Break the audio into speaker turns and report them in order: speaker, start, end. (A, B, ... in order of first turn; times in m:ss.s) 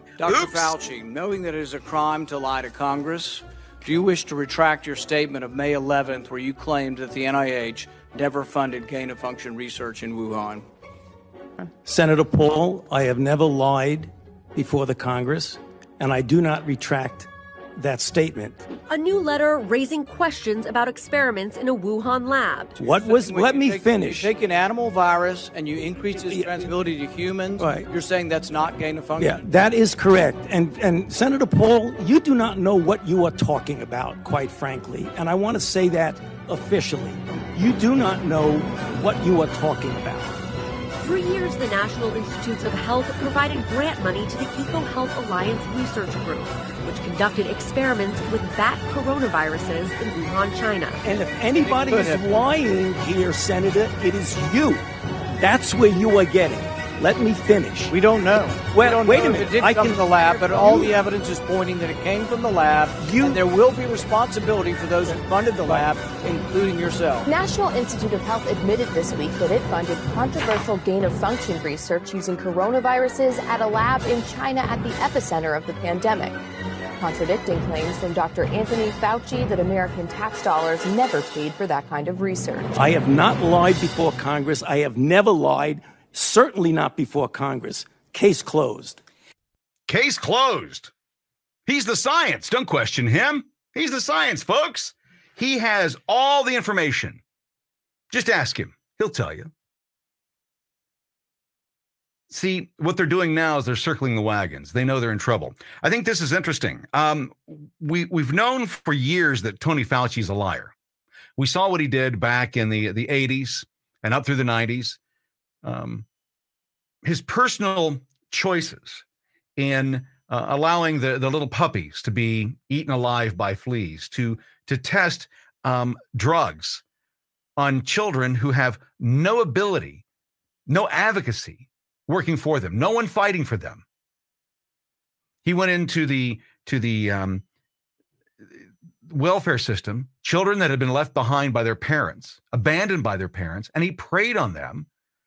0:00.2-0:10.7 A
0:00.3-0:00.7 B
0:11.8-0:18.6 C
0:18.9-0:22.8 D
0:22.8-0:24.3 C
0:22.8-0:29.5 A
0:26.1-0:26.7 C
0:27.6-0:27.9 C
0:29.2-0:40.4 C
0:41.0-0:51.0 D
0:51.0-0:54.9 C
0:51.6-0:52.2 A
0:55.4-0:58.0 C
0:57.9-1:07.3 A
0:58.7-1:01.0 C
1:03.0-1:03.4 C
1:05.1-1:05.9 C
1:07.2-1:16.4 E
1:17.0-1:22.8 E
1:22.8-1:29.0 C
1:29.9-1:30.9 B
1:31.7-1:37.2 B
1:38.1-1:39.5 B
1:42.3-1:50.7 B
1:51.4-1:55.0 B
1:55.6-1:56.1 B
1:57.0-1:59.0 B
1:59.6-2:06.8 B
2:07.6-2:10.0 B
2:10.7-2:13.8 B
2:15.4-2:17.4 B
2:19.1-2:24.9 B